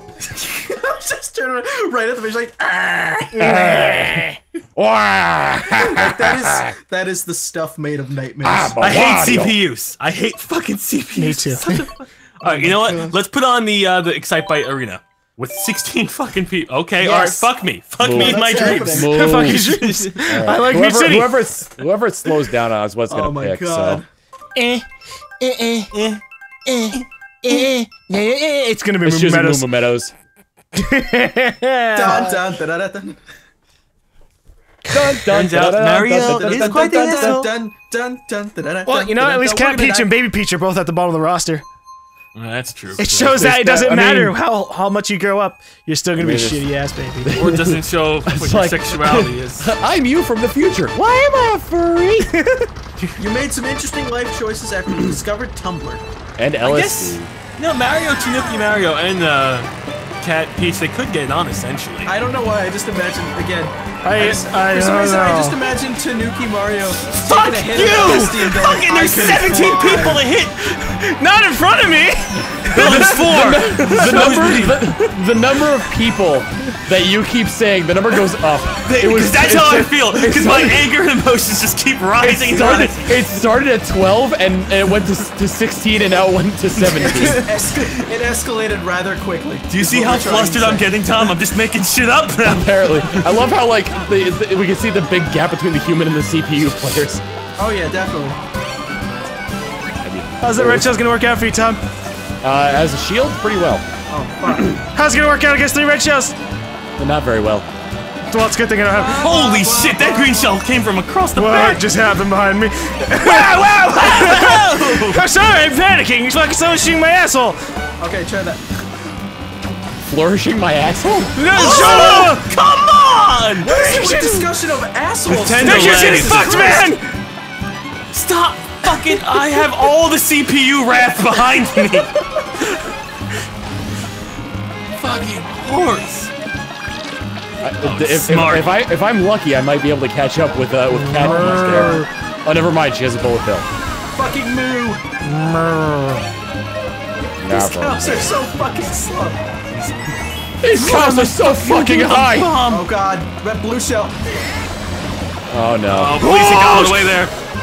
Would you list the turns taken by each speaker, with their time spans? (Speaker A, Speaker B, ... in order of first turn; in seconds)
Speaker A: 0.4-4.0, 5.7-8.8, 12.6-13.1, 18.1-19.2, 23.1-24.1, 31.9-33.2, 36.5-40.1, 53.2-56.0, 62.0-70.2, 86.9-91.3, 97.6-98.4, 104.1-104.8, 108.9-110.6, 118.0-118.6, 121.7-122.1, 123.6-127.0, 144.1-145.0, 147.5-149.4, 152.7-154.2
Speaker B: 3.4-6.7, 8.4-9.6, 17.0-17.4, 18.0-24.0, 29.0-30.1, 34.9-37.4, 43.2-44.4, 46.2-46.7, 47.2-52.3, 56.4-57.3, 72.7-80.9, 82.2-87.5, 92.4-97.2, 100.0-100.9, 102.4-103.8, 107.0-107.7, 120.0-121.4, 137.6-143.7, 147.4-148.4, 150.6-152.6, 155.5-156.2
Speaker C: 3.5-4.2, 11.2-11.9, 19.1-21.5, 24.6-24.8, 25.4-25.9, 26.6-29.7, 30.7-32.4, 37.0-37.5, 38.9-41.6, 43.0-47.3, 52.3-52.6, 64.0-65.6, 67.8-68.5, 70.7-74.4, 100.4-101.8, 104.5-106.3, 108.3-109.2, 111.3-117.6, 121.3-122.4, 123.8-124.5, 125.6-127.0, 141.1-142.1, 145.4-146.1, 156.2-157.2
Speaker D: 8.8-20.0, 25.9-26.2, 35.2-37.5, 42.3-43.5, 47.3-49.7, 56.6-62.1, 67.3-70.7, 72.7-74.8, 78.8-83.2, 89.7-93.4, 109.0-111.8, 113.2-115.2, 121.5-124.1, 125.3-126.6, 128.1-132.1, 134.9-136.3, 137.8-138.8, 141.3-142.0, 149.7-150.1, 150.7-152.9, 155.9-157.3